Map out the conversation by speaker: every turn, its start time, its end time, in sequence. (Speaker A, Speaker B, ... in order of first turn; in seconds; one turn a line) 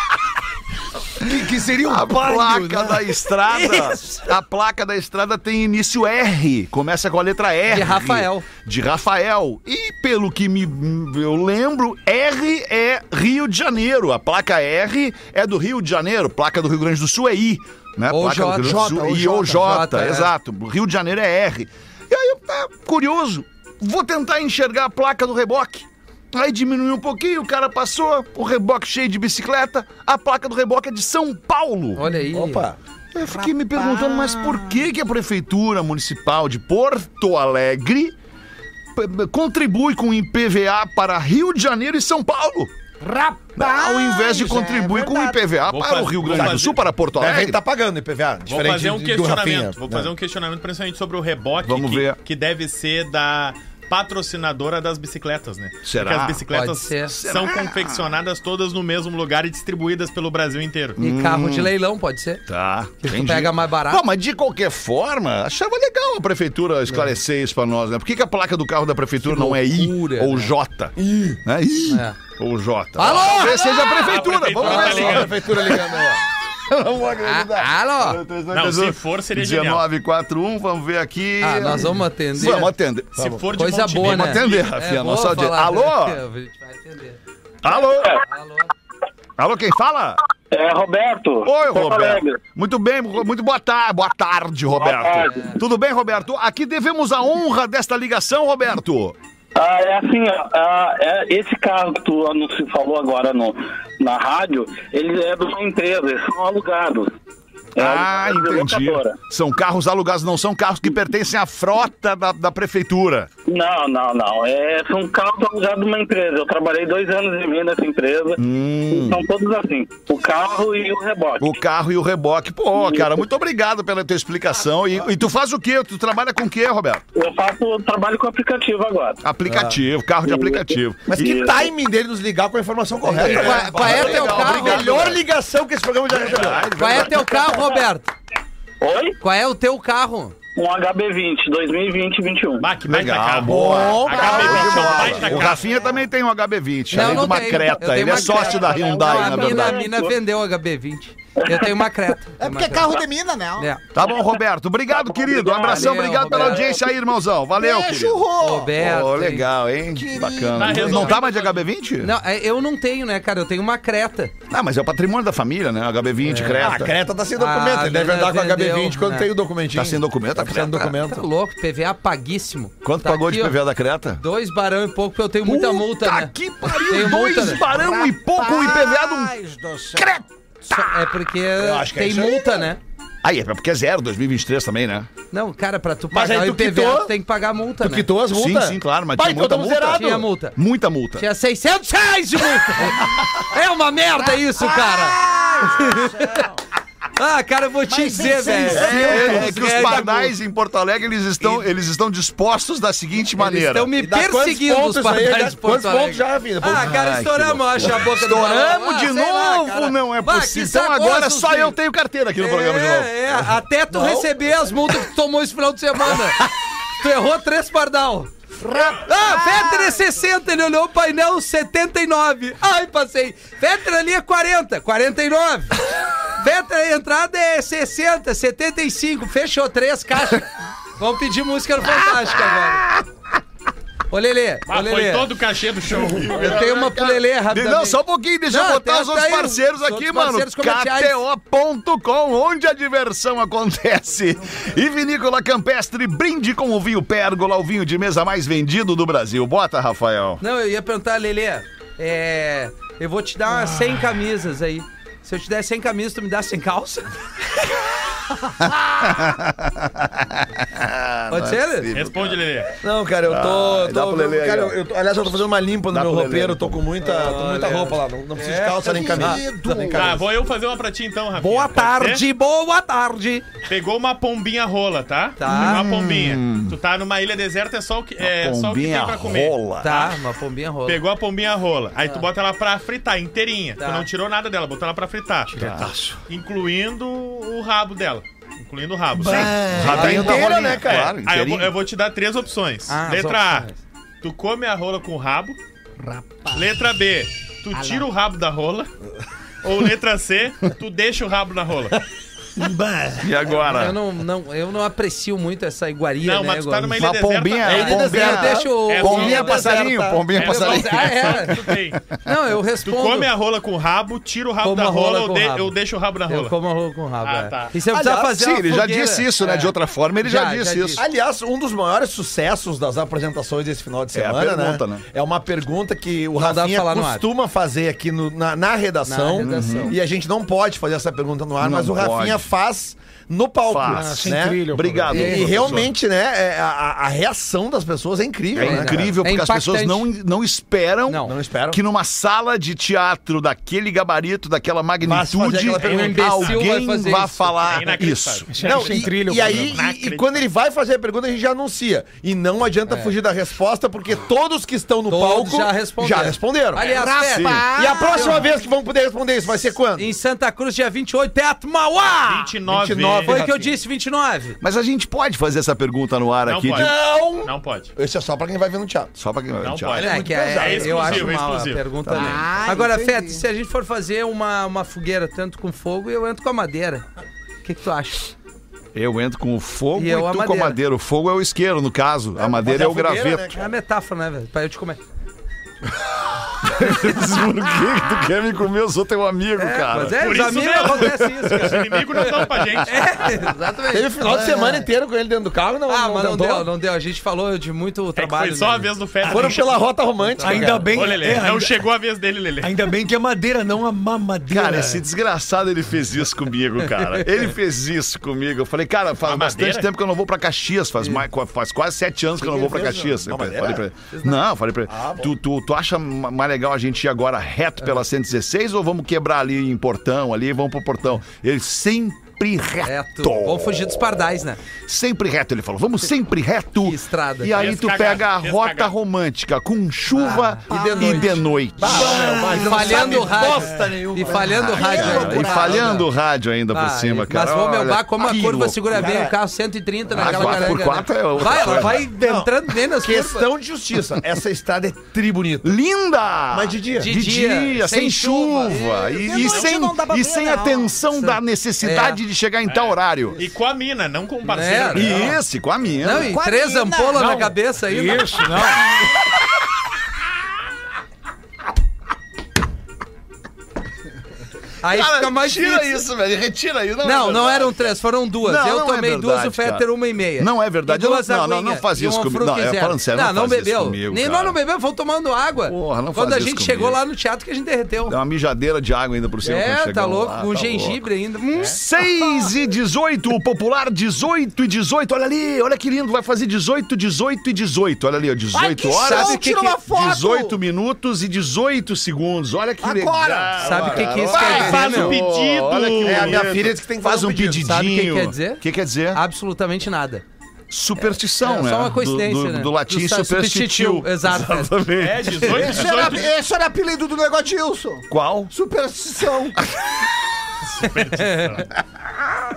Speaker A: 1.3-32.0
Speaker B: 1.3-2.6
Speaker C: 3.4-4.3
Speaker C: 7.7-8.4
Speaker C: 18.1-19.0
Speaker D: 18.6-19.7
Speaker C: 19.5-20.3
Speaker C: 31.9-32.6
Speaker E: 32.3-32.8
Speaker A: 33.1-38.1
Speaker D: 33.2-34.8
Speaker A: 39.0-42.7
Speaker D: 43.0-45.4
Speaker A: 43.5-47.6
Speaker F: 45.7-46.8
Speaker E: 46.3-46.6
Speaker E: 47.1-50.1
Speaker F: 48.5-61.0
Speaker A: 51.6-52.2
Speaker A: 55.8-56.5
Speaker C: 56.5-57.1
Speaker A: 57.1-58.1
Speaker A: 61.0-61.7
Speaker C: 61.0-62.4
Speaker A: 62.5-75.8
Speaker C: 63.0-64.0
Speaker C: 69.2-70.5
Speaker E: 71.0-71.4
Speaker C: 71.9-72.2
Speaker C: 73.0-73.8
Speaker F: 73.8-75.8
Speaker E: 74.6-76.2
Speaker C: 74.6-75.2
Speaker A: 76.5-83.2
Speaker C: 77.2-78.2
Speaker F: 78.5-79.8
Speaker C: 81.4-82.7
Speaker E: 82.4-83.4
Speaker F: 83.2-84.7
Speaker C: 83.5-87.2
Speaker A: 84.0-86.2
Speaker A: 87.6-88.2
Speaker C: 88.0-88.7
Speaker A: 89.4-90.2
Speaker G: 90.5-92.4
Speaker A: 91.4-99.2
Speaker G: 94.8-95.4
Speaker C: 95.2-95.6
Speaker G: 99.5-107.1
Speaker G: 107.8-109.1
Speaker A: 107.8-113.3
Speaker G: 113.5-118.4
Speaker A: 118.3-119.2
Speaker G: 118.9-121.5
Speaker A: 121.4-127.0
Speaker G: 127.1-129.2
Speaker A: 129.2-131.4
Speaker C: 129.5-129.8
Speaker G: 130.2-131.7
Speaker E: 131.1-137.0
Speaker C: 133.0-135.0
Speaker A: 133.2-135.2
Speaker A: 136.1-137.6
Speaker F: 136.3-136.7
Speaker C: 136.7-138.1
Speaker G: 137.5-137.8
Speaker G: 138.8-139.2
Speaker C: 139.2-140.3
Speaker G: 140.6-142.7
Speaker F: 142.6-145.6
Speaker A: 142.8-149.9
Speaker E: 143.5-145.0
Speaker D: 143.5-146.0
Speaker C: 146.9-153.0
Speaker G: 149.0-150.1
Speaker G: 151.4-151.8
Speaker D: 152.4-153.7
Speaker A: 153.9-162.1
Speaker G: 154.9-156.5
Speaker C: 155.6-156.8
Speaker D: 157.5-158.7
Speaker C: 158.4-159.4
Speaker D: 159.9-161.2
Speaker F: 160.5-161.6
Speaker C: 162.0-164.3
Speaker A: 164.5-167.0
Speaker C: 166.2-166.8
Speaker E: 166.6-171.3
Speaker C: 167.3-169.3
Speaker A: 169.7-171.0
Speaker C: 170.8-173.6
Speaker A: 172.8-174.2
Speaker C: 174.2-176.3
Speaker A: 175.4-179.3
Speaker C: 176.8-177.6
Speaker D: 177.3-180.2
Speaker A: 179.9-180.2
Speaker C: 180.7-182.8
Speaker E: 181.5-182.4
Speaker A: 183.2-185.1
Speaker C: 185.3-188.1
Speaker E: 186.1-187.1
Speaker E: 187.8-190.2
Speaker A: 188.3-191.2
Speaker C: 189.9-190.6
Speaker C: 191.2-196.4
Speaker D: 194.2-196.6
Speaker C: 197.2-200.1
Speaker D: 197.9-199.9
Speaker A: 198.7-203.9
Speaker E: 198.8-200.3
Speaker C: 203.4-211.8
Speaker E: 204.0-207.0
Speaker A: 206.7-213.4
Speaker C: 212.4-216.5
Speaker E: 213.9-214.4
Speaker C: 217.0-218.3
Speaker D: 218.6-220.0
Speaker C: 219.0-225.8
Speaker C: 226.4-232.9
Speaker C: 234.1-235.3
Speaker F: 234.7-236.6
Speaker A: 235.9-250.4
Speaker C: 236.3-241.2
Speaker C: 250.4-257.6
Speaker A: 259.0-262.5
Speaker C: 261.3-261.9
Speaker F: 261.9-262.8
Speaker E: 262.8-270.2
Speaker A: 263.2-266.9
Speaker C: 267.0-270.1
Speaker D: 268.8-270.1
Speaker F: 269.9-272.2
Speaker C: 271.4-273.4
Speaker F: 273.7-280.1
Speaker C: 275.4-275.9
Speaker A: 275.4-276.8
Speaker A: 278.2-280.0
Speaker C: 279.8-281.0
Speaker F: 280.8-285.6
Speaker C: 283.8-284.1
Speaker A: 285.5-286.1
Speaker F: 286.3-289.5
Speaker A: 289.2-291.7
Speaker E: 289.2-291.1
Speaker C: 289.8-290.6
Speaker F: 290.8-293.7
Speaker C: 292.9-293.8
Speaker F: 294.2-295.6
Speaker D: 296.0-296.7
Speaker F: 296.5-298.9
Speaker D: 297.8-298.0
Speaker F: 299.6-302.0
Speaker A: 303.2-304.0
Speaker C: 303.5-307.0
Speaker F: 306.2-309.7
Speaker A: 306.9-312.3
Speaker E: 307.6-310.4
Speaker C: 307.7-311.6
Speaker F: 310.4-312.0
Speaker C: 312.2-313.3
Speaker F: 312.8-316.6
Speaker C: 314.6-315.7
Speaker C: 316.3-321.0
Speaker F: 317.2-317.7
Speaker E: 317.9-318.4
Speaker A: 318.2-321.0
Speaker E: 320.9-339.1
Speaker A: 324.1-325.0
Speaker C: 326.4-327.2
Speaker C: 329.1-329.9
Speaker A: 329.4-329.9
Speaker A: 331.6-332.5
Speaker A: 333.7-335.9
Speaker B: 333.9-335.8
Speaker C: 335.1-335.7
Speaker A: 338.5-348.5
Speaker C: 338.6-340.1
Speaker C: 341.1-341.3
Speaker E: 341.2-341.8
Speaker E: 345.0-346.5
Speaker C: 345.8-347.7
Speaker F: 346.2-346.5
Speaker F: 347.6-350.4
Speaker B: 348.5-349.8
Speaker E: 348.6-356.9
Speaker C: 352.9-353.1
Speaker C: 355.1-358.4
Speaker D: 356.8-358.5
Speaker A: 357.3-357.6
Speaker E: 357.7-360.1
Speaker C: 359.9-362.5
Speaker F: 362.2-363.5
Speaker E: 362.7-363.7
Speaker C: 363.2-364.6
Speaker A: 364.6-366.9
Speaker F: 366.4-367.9
Speaker E: 366.7-369.1
Speaker A: 369.1-370.0
Speaker F: 369.6-371.8
Speaker E: 369.9-371.3
Speaker C: 370.0-377.0
Speaker A: 372.0-372.6
Speaker D: 372.1-373.4
Speaker C: 377.6-378.3
Speaker A: 378.9-383.4
Speaker C: 380.0-380.8
Speaker E: 382.4-383.7
Speaker C: 383.5-385.0
Speaker A: 386.5-392.8
Speaker C: 389.6-392.3
Speaker F: 390.1-393.2
Speaker C: 392.8-394.8
Speaker E: 393.9-396.7
Speaker C: 395.9-398.9
Speaker F: 398.2-399.8
Speaker B: 399.3-399.5
Speaker E: 399.3-400.9
Speaker C: 400.2-401.1
Speaker B: 400.4-401.8
Speaker F: 400.9-402.9
Speaker B: 402.6-405.0
Speaker A: 404.5-424.0
Speaker F: 409.2-409.9
Speaker E: 412.4-413.8
Speaker C: 414.1-414.4
Speaker E: 414.9-415.3
Speaker C: 422.8-424.6
Speaker A: 424.9-432.2
Speaker C: 426.8-427.7
Speaker F: 427.6-428.9
Speaker E: 430.2-435.1
Speaker C: 430.2-430.6
Speaker D: 430.7-432.0
Speaker C: 432.0-436.1
Speaker D: 432.6-433.2
Speaker D: 434.3-435.9
Speaker A: 434.6-439.1
Speaker C: 436.7-443.5
Speaker E: 438.9-439.3
Speaker A: 440.1-442.1
Speaker E: 440.1-440.9
Speaker E: 441.4-445.7
Speaker A: 445.6-453.4
Speaker E: 446.5-447.1
Speaker C: 446.9-448.8
Speaker D: 448.7-451.1
Speaker F: 449.3-449.6
Speaker C: 451.8-452.2
Speaker F: 452.6-455.4
Speaker C: 454.5-455.3
Speaker A: 454.9-456.3
Speaker C: 456.0-458.6
Speaker D: 456.1-457.3
Speaker B: 457.1-458.8
Speaker C: 464.8-466.0
Speaker A: 464.8-474.6
Speaker C: 467.0-478.1
Speaker A: 475.6-477.0
Speaker A: 478.1-481.1
Speaker C: 479.4-481.8
Speaker A: 481.6-499.2
Speaker D: 482.2-482.5
Speaker D: 488.5-490.6
Speaker C: 489.0-489.8
Speaker D: 492.8-494.1
Speaker C: 493.6-495.2
Speaker F: 494.3-496.4
Speaker E: 494.3-494.8
Speaker E: 496.0-497.7
Speaker C: 497.6-500.2
Speaker A: 500.7-505.9
Speaker C: 501.0-504.7
Speaker F: 505.0-506.3
Speaker D: 505.4-509.6
Speaker A: 508.1-508.5
Speaker F: 510.6-511.7
Speaker C: 511.1-511.6